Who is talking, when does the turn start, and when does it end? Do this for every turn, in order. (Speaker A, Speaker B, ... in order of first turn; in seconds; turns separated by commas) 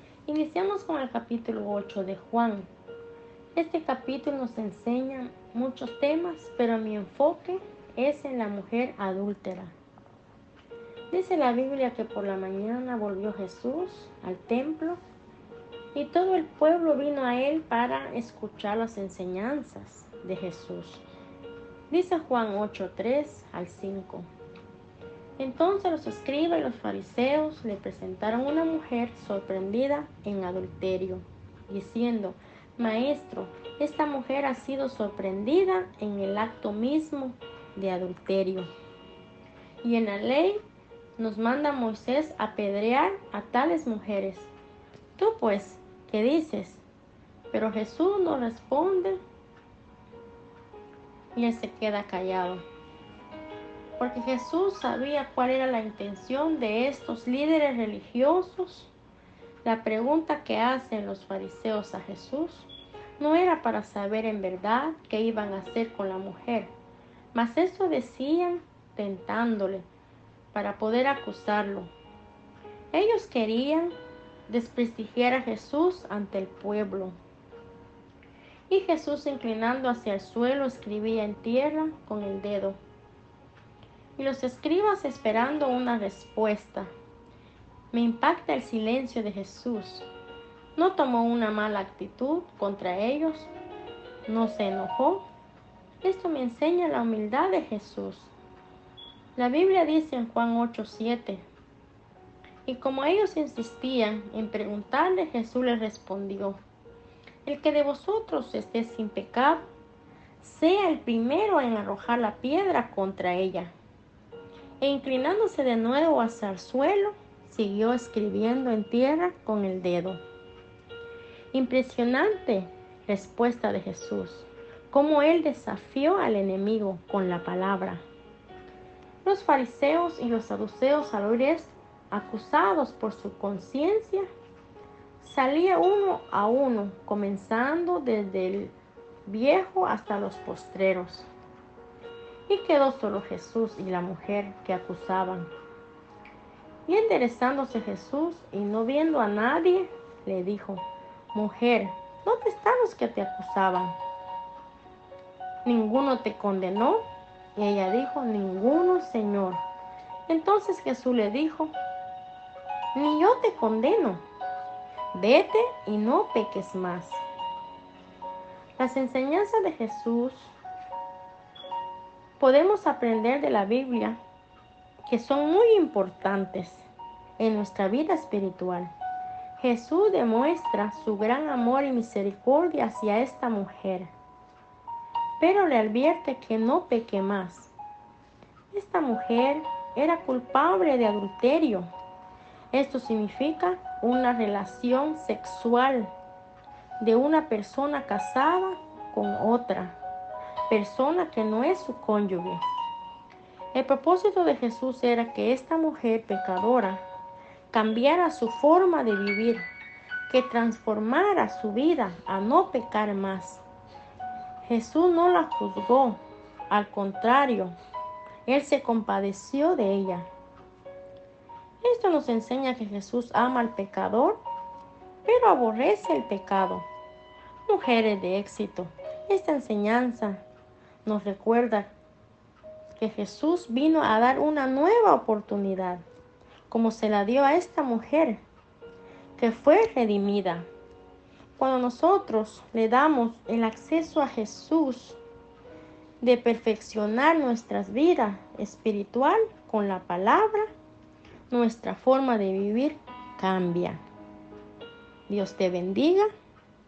Speaker A: 0.3-2.7, Speaker A: 3.5-9.7, Speaker A: 11.1-15.0, Speaker A: 15.9-21.0, Speaker A: 21.9-24.3, Speaker A: 25.4-38.7, Speaker A: 39.8-40.6, Speaker A: 41.2-44.5, Speaker A: 45.2-46.8, Speaker A: 47.5-49.2, Speaker A: 51.3-52.6, Speaker A: 54.0-58.9, Speaker A: 59.6-66.7, Speaker A: 67.3-69.9, Speaker A: 70.5-71.9, Speaker A: 72.9-73.9, Speaker A: 74.5-77.2, Speaker A: 78.7-82.8, Speaker A: 84.2-86.9, Speaker A: 87.9-90.1, Speaker A: 90.8-93.5, Speaker A: 94.2-95.2, Speaker A: 96.0-98.3, Speaker A: 99.3-101.4, Speaker A: 102.7-106.6, Speaker A: 107.4-109.7, Speaker A: 110.4-113.7, Speaker A: 114.8-120.2, Speaker A: 121.5-128.0, Speaker A: 129.2-134.3, Speaker A: 135.2-138.7, Speaker A: 139.2-141.3, Speaker A: 142.5-145.5, Speaker A: 146.9-154.0, Speaker A: 155.6-157.0, Speaker A: 157.6-159.6, Speaker A: 160.3-161.7, Speaker A: 162.9-164.2, Speaker A: 165.1-167.2, Speaker A: 168.8-170.5, Speaker A: 172.4-174.2, Speaker A: 175.1-176.8, Speaker A: 177.4-178.9, Speaker A: 179.6-184.1, Speaker A: 185.4-187.7, Speaker A: 188.7-191.9, Speaker A: 192.7-196.1, Speaker A: 197.0-200.0, Speaker A: 200.7-202.6, Speaker A: 203.7-207.0, Speaker A: 207.7-209.7, Speaker A: 210.3-213.6, Speaker A: 214.6-217.7, Speaker A: 218.4-220.3, Speaker A: 221.8-224.4, Speaker A: 225.2-226.8, Speaker A: 227.6-230.4, Speaker A: 231.0-231.9, Speaker A: 232.9-236.0, Speaker A: 236.7-238.4, Speaker A: 239.4-240.7, Speaker A: 241.6-245.2, Speaker A: 246.2-250.7, Speaker A: 251.5-254.0, Speaker A: 255.3-256.3